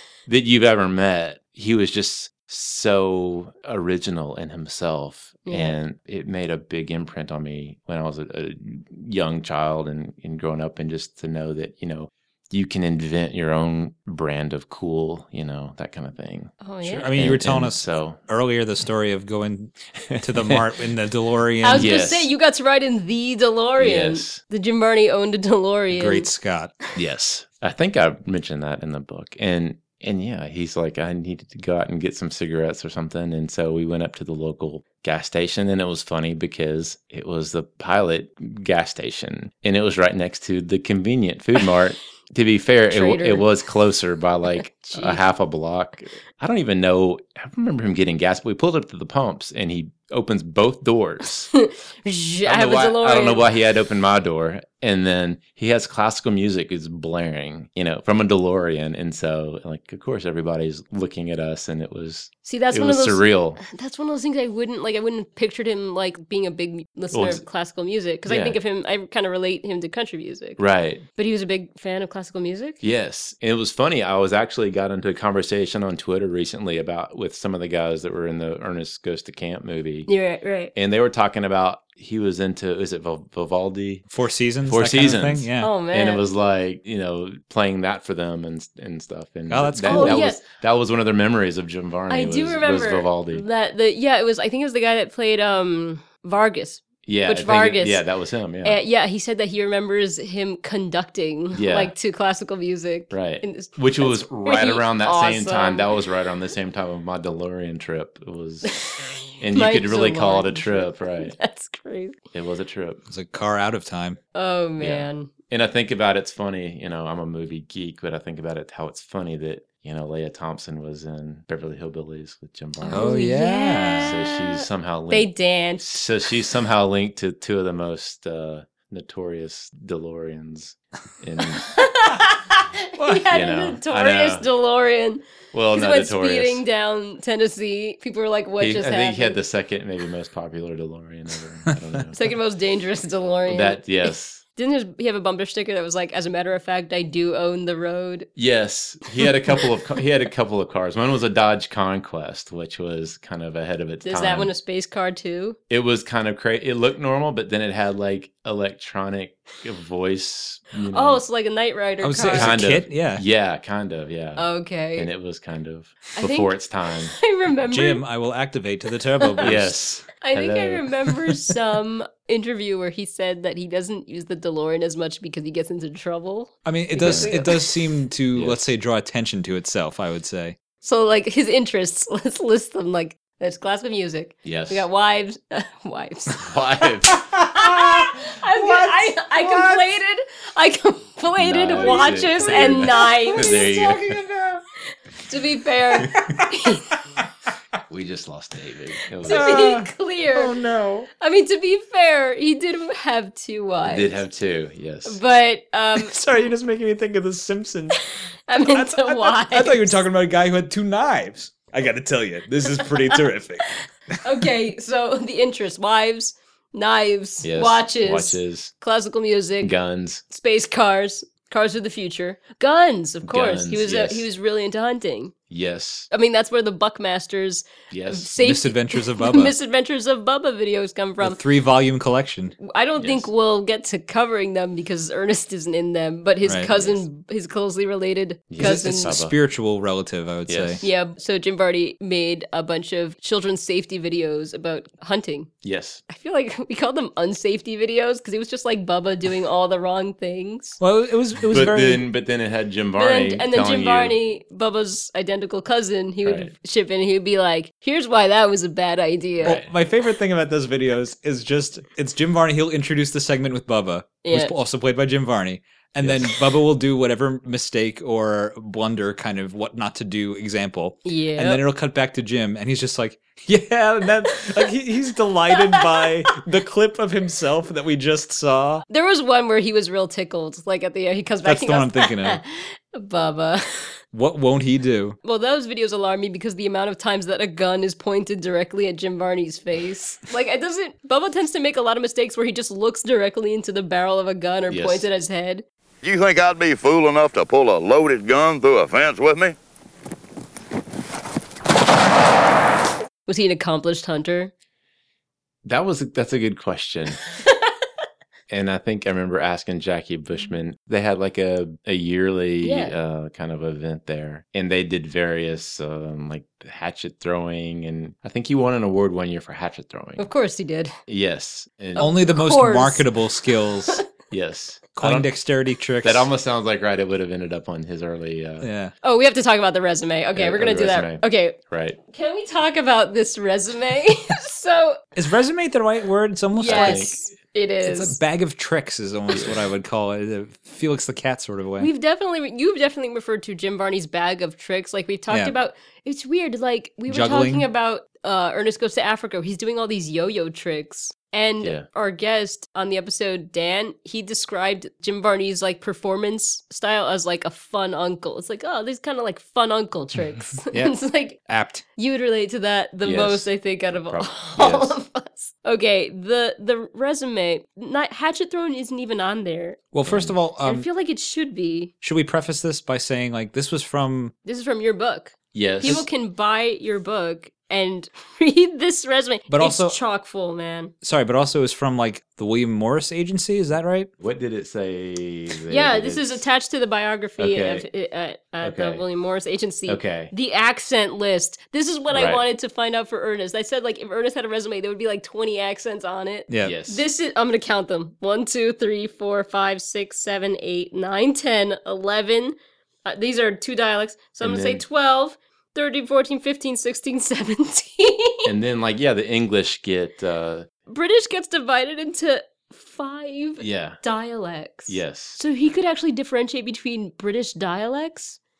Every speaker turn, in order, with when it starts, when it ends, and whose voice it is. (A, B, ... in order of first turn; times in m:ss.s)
0:00.2-0:16.5 A
0:05.4-0:05.8 B
0:16.6-0:17.1 B
0:16.8-0:21.9 C
0:17.1-0:18.2 A
0:20.0-0:20.6 A
0:21.6-0:26.3 B
0:21.7-0:22.3 A
0:23.8-0:24.4 A
0:25.9-0:26.7 C
0:26.9-0:51.5 A
0:42.9-0:43.4 B
0:44.6-0:45.2 B
0:51.5-0:53.5 B
0:52.4-1:03.6 A
1:02.4-1:10.6 B
1:07.1-1:07.4 A
1:08.3-1:08.6 A
1:10.6-1:11.0 A
1:11.2-1:12.8 B
1:12.8-1:20.1 A
1:20.1-1:20.7 B
1:20.7-1:24.0 A
1:24.1-1:25.7 C
1:24.6-1:33.4 A
1:25.6-1:26.2 B
1:29.5-1:30.2 C
1:29.9-1:30.4 B
1:32.1-1:38.0 B
1:37.0-1:38.8 A
1:38.6-1:45.9 B
1:41.5-1:41.9 A
1:43.1-1:48.7 A
1:48.6-1:52.2 B
1:49.4-1:51.4 A
1:52.3-1:53.0 A
1:53.1-1:54.2 C
1:54.3-1:55.3 B
1:54.8-2:03.1 A
2:02.8-2:05.8 B
2:02.9-2:04.1 C
2:04.0-2:11.8 A
2:11.7-2:19.4 B
2:13.3-2:14.4 A
2:15.5-2:16.6 A
2:18.6-2:22.2 A
2:22.1-2:28.3 B
2:23.5-2:24.4 A
2:28.4-2:34.5 A
2:34.0-2:35.6 B
2:35.7-2:41.2 A
2:40.9-2:42.6 B
2:42.0-2:43.2 C
2:42.3-2:47.2 A
2:44.4-2:45.1 B
2:46.2-2:48.0 B
2:47.7-2:49.8 C
2:49.2-2:49.5 B
2:49.4-2:50.8 A
2:50.2-2:57.8 B
2:56.6-3:00.6 C
2:57.0-2:57.3 A
2:58.3-2:58.7 A
3:00.8-3:13.7 B
3:04.4-3:04.8 A
3:06.4-3:07.3 A
3:07.1-3:10.0 C
3:11.4-3:14.2 A
3:11.7-3:14.6 C
3:15.3-3:17.0 B
3:16.0-3:17.2 C
3:17.9-3:19.6 A
3:19.2-3:20.5 B
3:19.2-3:21.1 C
3:21.2-3:24.2 B
3:23.8-3:25.2 A
3:25.0-3:26.2 B
3:26.0-3:28.0 C
3:28.1-3:29.9 B
3:28.6-3:33.8 C
3:32.8-3:39.7 B
3:37.4-3:38.7 A
3:39.6-3:40.2 A
3:40.3-3:45.3 B
3:43.2-3:44.3 A
3:45.5-3:46.1 A
3:46.1-3:51.4 B
3:47.9-3:48.3 A
3:48.4-3:49.5 C
3:51.2-3:52.6 C
3:52.6-3:59.2 B
3:53.0-3:53.3 A
3:56.4-3:56.7 C
3:56.7-3:57.0 A
3:58.5-3:59.3 A
3:58.6-4:00.8 C
4:00.5-4:00.9 A
4:00.8-4:05.5 B
4:05.6-4:06.0 A
4:06.1-4:10.8 B
4:10.8-4:12.0 C
4:11.5-4:14.2 A
4:13.0-4:19.6 B
4:16.2-4:16.5 A
4:19.4-4:19.7 A
4:19.4-4:38.8 C
4:24.2-4:24.5 B
4:26.0-4:26.3 A
4:31.0-4:31.6 B
4:35.6-4:36.0 B
4:38.9-4:44.0 B
4:41.4-4:42.4 C
4:44.1-4:45.2 C
4:45.2-4:55.6 B
4:54.7-4:55.1 A
4:56.0-4:59.6 D
5:03.2-5:04.5 B
5:05.6-5:07.2 A
5:07.4-5:07.7 B
5:08.5-5:20.3 A
5:12.6-5:13.0 B
5:20.2-5:20.9 B
5:21.1-5:22.1 A
5:22.0-5:24.1 B
5:22.0-5:24.0 C
5:24.3-5:25.3 A
5:25.0-5:26.2 C
5:26.0-5:28.7 A
5:28.6-5:28.9 C
5:29.0-5:35.0 B
5:30.4-5:32.0 A
5:35.2-5:37.1 C
5:36.5-5:38.2 B
5:36.6-5:37.1 A
5:37.8-5:41.9 C
5:39.3-5:39.6 A
5:41.8-6:01.4 B
5:47.1-5:47.7 C
5:51.6-5:51.8 A
6:00.7-6:01.8 C
6:02.0-6:09.8 B
6:03.0-6:05.0 A
6:09.9-6:10.9 C
6:10.0-6:10.3 A
6:10.6-6:11.9 B
6:12.0-6:14.3 C
6:14.4-6:20.9 B
6:15.5-6:16.0 A
6:19.5-6:20.0 C
6:21.0-6:24.1 C
6:24.2-6:26.4 A
6:25.7-6:48.5 B
6:27.4-6:27.9 A
6:28.6-6:29.0 A
6:29.9-6:30.3 A
6:32.1-6:32.4 A
6:36.5-6:36.7 C
6:36.6-6:37.0 A
6:44.4-6:44.8 A
6:48.4-6:50.7 A
6:50.9-6:58.4 B
6:53.6-6:54.0 A
6:54.9-6:55.4 A